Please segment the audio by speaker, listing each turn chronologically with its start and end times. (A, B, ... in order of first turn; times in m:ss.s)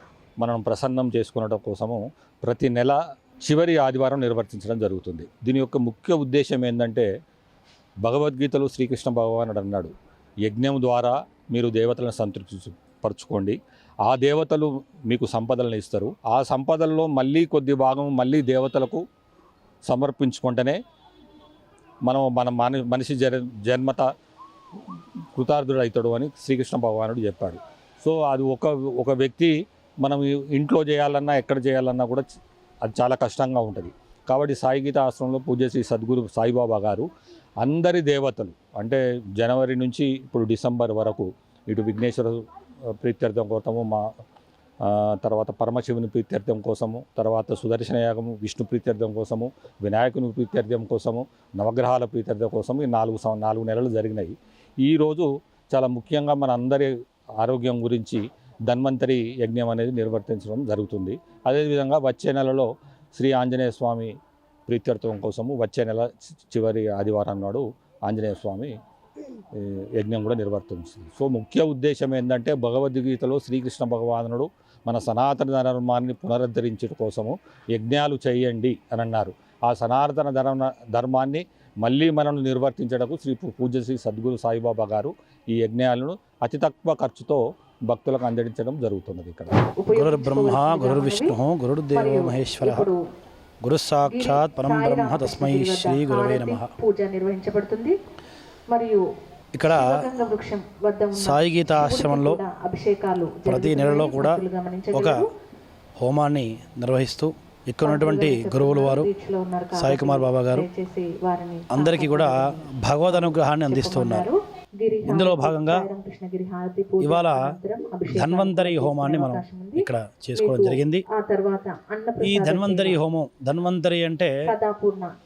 0:00.4-0:07.0 A
0:08.0-0:09.9 A
0:10.5-0:13.6 A
0:14.1-0:19.0 A
0:19.9-0:20.8 A
0:22.1-0:24.0 A
0:25.4-0:29.5 A
0:30.0-0:32.2 A
0:32.8-0:37.1 A
0:37.6-0:42.3 A
0:43.0-0:44.0 A
0:45.2-0:54.3 A
0:54.9-0:56.9 A
0:57.4-0:58.2 A
0:58.7-1:04.1 A
1:04.7-1:08.7 A
1:10.0-1:29.5 A
1:29.8-1:31.4 B
1:29.9-1:32.9 C
1:31.9-1:33.0 B
1:33.6-1:36.7 C
1:34.1-1:37.9 B
1:38.7-1:39.0 B
1:39.6-1:40.0 C
1:39.7-1:45.2 B
1:41.2-1:42.4 C
1:43.4-1:45.2 C
1:46.0-1:49.1 C
1:47.8-1:59.8 B
1:49.8-1:50.6 C
1:51.7-1:52.3 C
1:52.8-1:54.3 C
1:55.1-1:55.9 C
1:57.0-1:57.4 C
1:58.1-2:01.0 C
2:00.4-2:03.0 B
2:02.2-2:04.3 C
2:04.5-2:05.1 B